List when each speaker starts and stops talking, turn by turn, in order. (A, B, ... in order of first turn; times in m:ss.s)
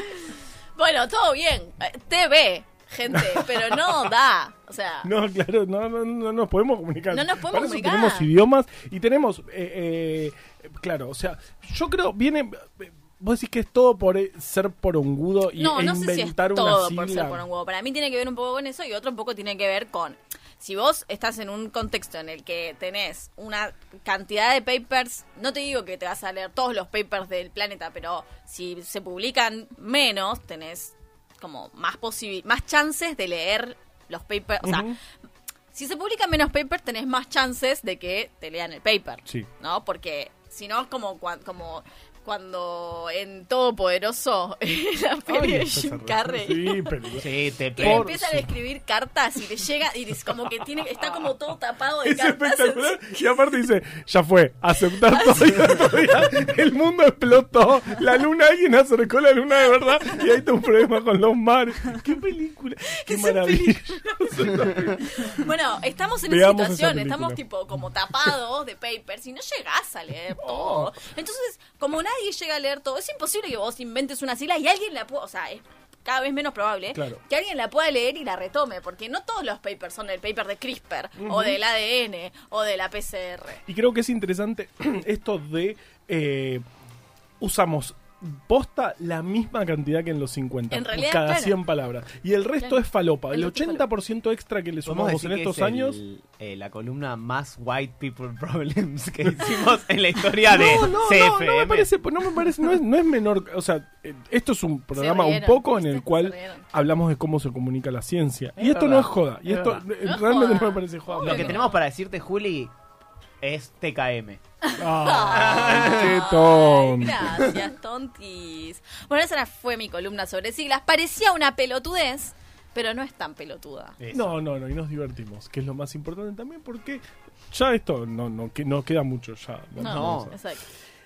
0:00.7-0:05.1 A
0:03.1-0:03.6 B
0:05.0-0:17.4 B
0:07.1-0:08.3 A
0:15.6-0:34.9 A
0:34.6-0:35.0 B
0:35.7-0:46.9 A
0:45.3-0:48.5 B
0:47.2-0:48.1 C
0:47.7-0:53.4 A
0:52.0-1:05.4 B
0:55.1-0:55.9 A
1:03.0-1:23.6 A
1:06.2-1:07.4 B
1:10.4-1:10.9 B
1:16.9-1:17.2 B
1:21.2-1:21.6 B
1:23.6-1:26.6 B
1:27.4-1:36.0 B
1:30.7-1:31.6 A
1:32.6-1:33.8 A
1:34.8-1:41.9 C
1:40.5-1:51.6 B
1:44.9-1:46.6 A
1:48.6-1:49.8 C
1:50.0-1:51.7 A
1:51.2-1:52.7 C
1:53.4-1:54.4 C
1:54.6-2:04.0 A
1:54.8-1:57.5 B
1:55.2-1:56.1 C
2:04.0-2:04.4 C
2:04.1-2:10.4 B
2:09.8-2:10.6 A
2:09.8-2:10.3 C